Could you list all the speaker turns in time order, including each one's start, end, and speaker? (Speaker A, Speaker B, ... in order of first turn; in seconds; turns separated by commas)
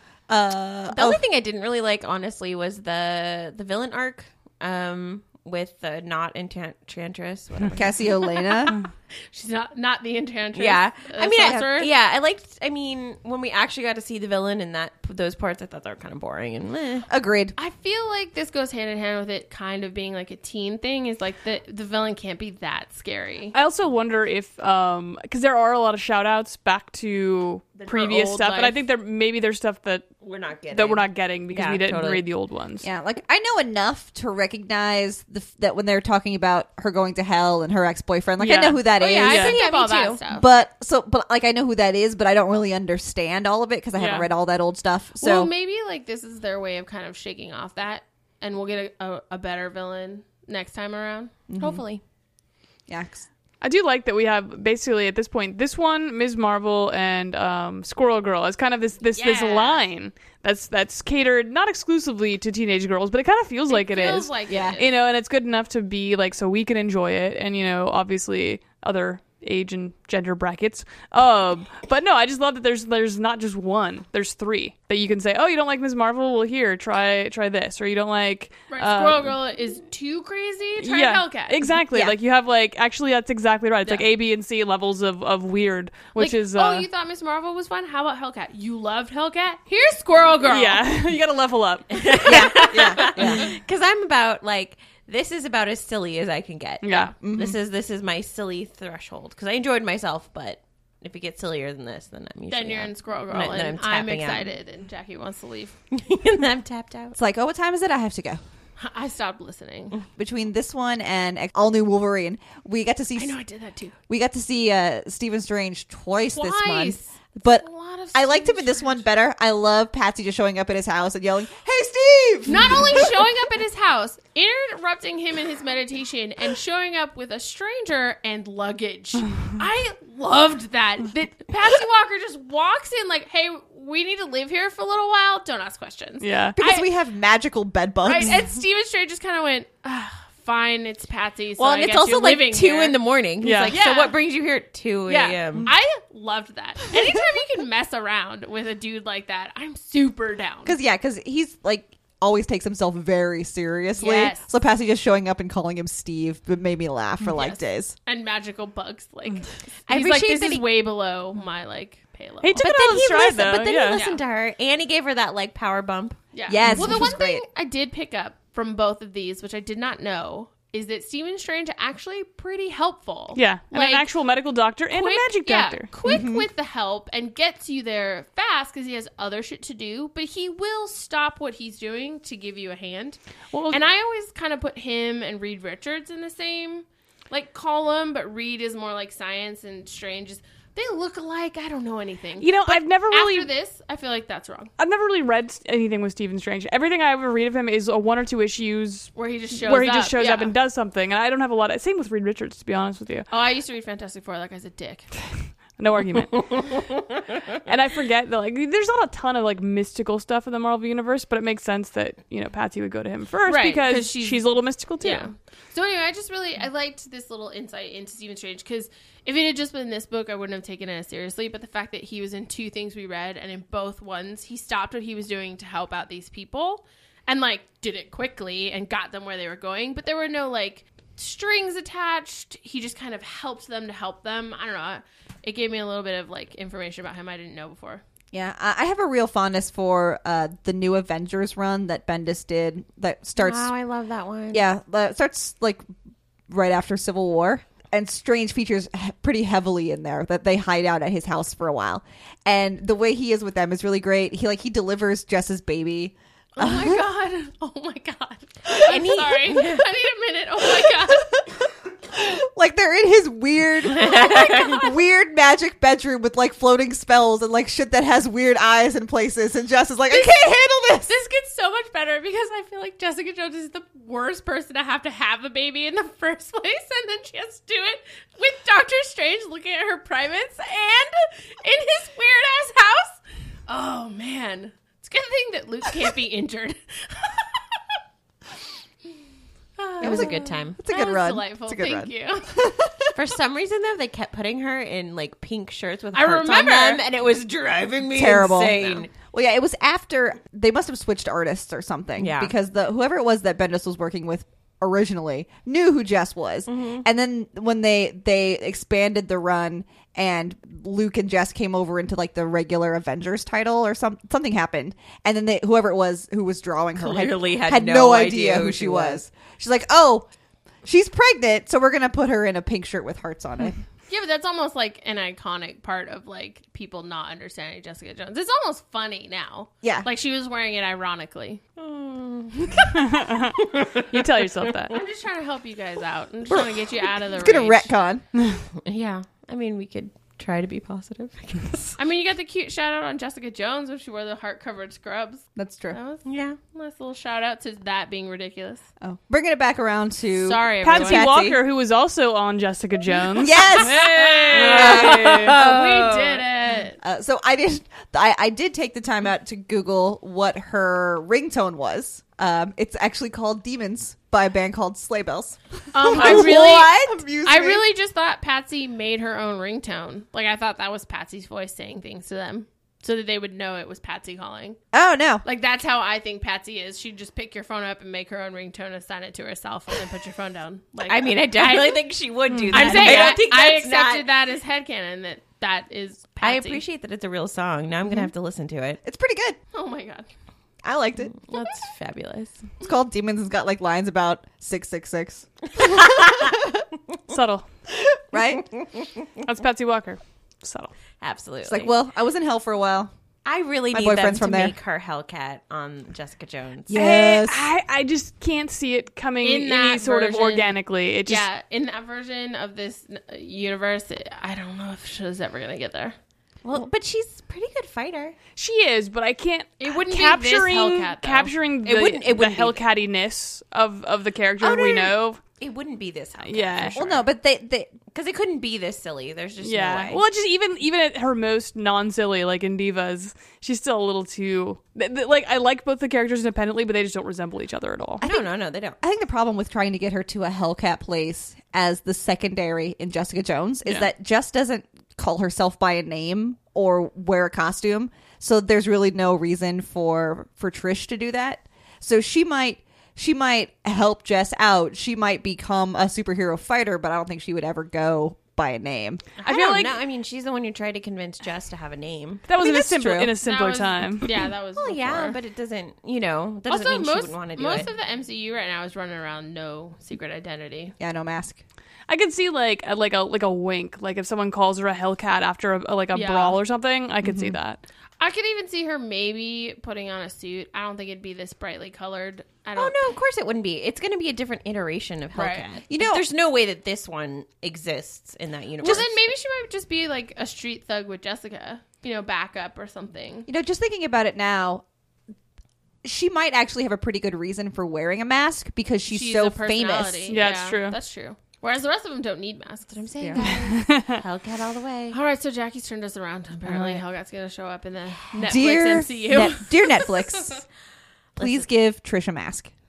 Speaker A: 0.3-1.2, Speaker B: 0.9-8.1, Speaker A: 7.7-8.8, Speaker C: 9.3-11.9, Speaker B: 10.5-17.1, Speaker A: 11.4-11.7, Speaker A: 17.1-17.5, Speaker C: 17.6-23.5, Speaker D: 23.5-30.1, Speaker C: 27.8-28.8, Speaker B: 30.2-32.2, Speaker D: 30.7-32.9, Speaker A: 32.8-39.5, Speaker B: 38.4-40.2, Speaker C: 39.0-40.4, Speaker D: 39.3-39.6, Speaker A: 40.3-45.5, Speaker D: 44.0-44.3, Speaker C: 45.2-51.3, Speaker A: 51.5-51.8, Speaker B: 51.6-52.0, Speaker A: 52.9-53.2, Speaker D: 53.6-79.3, Speaker C: 59.1-59.9, Speaker C: 63.7-64.9, Speaker A: 64.5-64.8, Speaker C: 78.7-81.6, Speaker D: 80.8-86.9, Speaker C: 86.2-90.8, Speaker D: 90.5-92.3, Speaker B: 92.0-104.5, Speaker A: 92.2-93.5, Speaker C: 92.4-93.0, Speaker D: 96.8-97.1, Speaker A: 97.2-97.6, Speaker C: 102.5-105.7, Speaker B: 105.9-107.2, Speaker A: 107.1-108.4, Speaker C: 108.8-110.0, Speaker A: 110.1-113.3, Speaker C: 113.2-113.9, Speaker A: 114.1-123.2, Speaker C: 116.3-119.0, Speaker C: 122.5-136.9, Speaker D: 136.2-136.6, Speaker A: 136.6-138.5, Speaker C: 138.0-143.0, Speaker B: 141.6-145.7, Speaker D: 143.4-143.8, Speaker C: 143.6-144.2, Speaker C: 145.1-150.8, Speaker A: 150.6-157.9, Speaker C: 153.9-154.5, Speaker C: 157.3-162.7, Speaker B: 159.9-160.7, Speaker D: 162.4-164.1, Speaker B: 162.6-167.2, Speaker C: 163.9-164.2, Speaker C: 166.3-174.1, Speaker A: 166.5-167.4, Speaker D: 173.3-175.9, Speaker C: 174.9-183.2, Speaker A: 176.0-176.5, Speaker D: 183.5-183.8, Speaker C: 183.7-194.7, Speaker D: 192.4-193.5, Speaker D: 194.8-203.3, Speaker C: 199.1-200.5, Speaker C: 203.3-205.1, Speaker D: 205.8-206.8, Speaker D: 207.6-215.3, Speaker C: 213.4-238.0, Speaker A: 238.3-243.7, Speaker B: 243.4-244.6, Speaker A: 244.5-245.9, Speaker A: 246.5-257.0, Speaker C: 256.6-261.5, Speaker B: 258.8-259.9, Speaker A: 262.1-271.1, Speaker B: 263.9-264.8, Speaker C: 270.1-287.6, Speaker C: 289.8-292.7, Speaker B: 290.0-290.8, Speaker A: 290.0-293.1, Speaker B: 293.1-299.1, Speaker C: 296.1-297.0, Speaker A: 298.1-320.3, Speaker B: 302.1-302.5, Speaker B: 306.7-307.0, Speaker B: 316.9-319.2, Speaker A: 320.8-323.8, Speaker C: 324.1-331.6, Speaker A: 329.8-330.1, Speaker B: 331.8-332.6, Speaker C: 332.7-333.0, Speaker D: 333.0-334.9, Speaker B: 333.6-333.9, Speaker C: 334.9-337.9, Speaker A: 336.5-338.2, Speaker B: 338.8-342.0, Speaker C: 342.0-348.8, Speaker A: 345.6-346.0, Speaker B: 346.2-346.6, Speaker A: 349.0-351.6, Speaker C: 350.3-351.3, Speaker D: 350.8-355.6, Speaker A: 353.4-354.0, Speaker B: 354.0-356.4, Speaker C: 354.6-357.0, Speaker A: 357.0-367.9, Speaker C: 365.9-374.8, Speaker B: 366.1-366.5, Speaker A: 374.9-375.4, Speaker C: 375.4-382.1, Speaker B: 381.0-384.3, Speaker D: 382.5-383.1, Speaker C: 382.7-386.8, Speaker A: 382.9-383.4, Speaker B: 386.4-389.0, Speaker A: 389.0-389.6, Speaker C: 389.7-390.3, Speaker A: 390.8-391.4, Speaker B: 391.4-392.7, Speaker A: 392.8-396.8, Speaker D: 397.3-397.6, Speaker A: 398.3-398.6, Speaker D: 399.4-400.9, Speaker B: 401.2-401.9, Speaker A: 401.6-403.1, Speaker B: 403.4-406.9, Speaker A: 403.9-404.8, Speaker A: 406.9-407.7, Speaker D: 406.9-411.4, Speaker C: 409.4-416.1, Speaker B: 416.6-418.4, Speaker D: 418.5-425.4, Speaker C: 419.8-421.5, Speaker B: 421.9-422.8, Speaker B: 424.6-427.2, Speaker D: 426.4-427.0, Speaker A: 426.9-427.9, Speaker B: 428.1-430.2, Speaker D: 429.6-438.2, Speaker B: 438.2-439.0, Speaker A: 438.2-459.2, Speaker D: 443.8-444.1, Speaker B: 459.4-462.4, Speaker D: 459.4-460.0, Speaker D: 462.4-464.3, Speaker A: 462.6-463.3, Speaker C: 463.4-465.4, Speaker B: 464.8-467.9, Speaker C: 466.7-470.9, Speaker A: 471.0-471.6, Speaker D: 472.1-477.8, Speaker C: 476.1-476.6, Speaker A: 477.2-477.6, Speaker C: 478.2-483.1, Speaker B: 482.7-489.2, Speaker C: 485.3-485.6, Speaker A: 485.9-486.3, Speaker C: 488.8-493.5, Speaker A: 488.8-489.1, Speaker A: 493.5-494.8, Speaker A: 496.0-500.4, Speaker C: 499.1-503.5, Speaker D: 500.3-501.0, Speaker B: 502.9-505.2, Speaker A: 503.2-503.5, Speaker D: 503.7-504.1, Speaker C: 505.1-510.6, Speaker A: 506.7-507.0, Speaker A: 508.4-510.6, Speaker B: 511.4-511.7, Speaker A: 511.4-512.7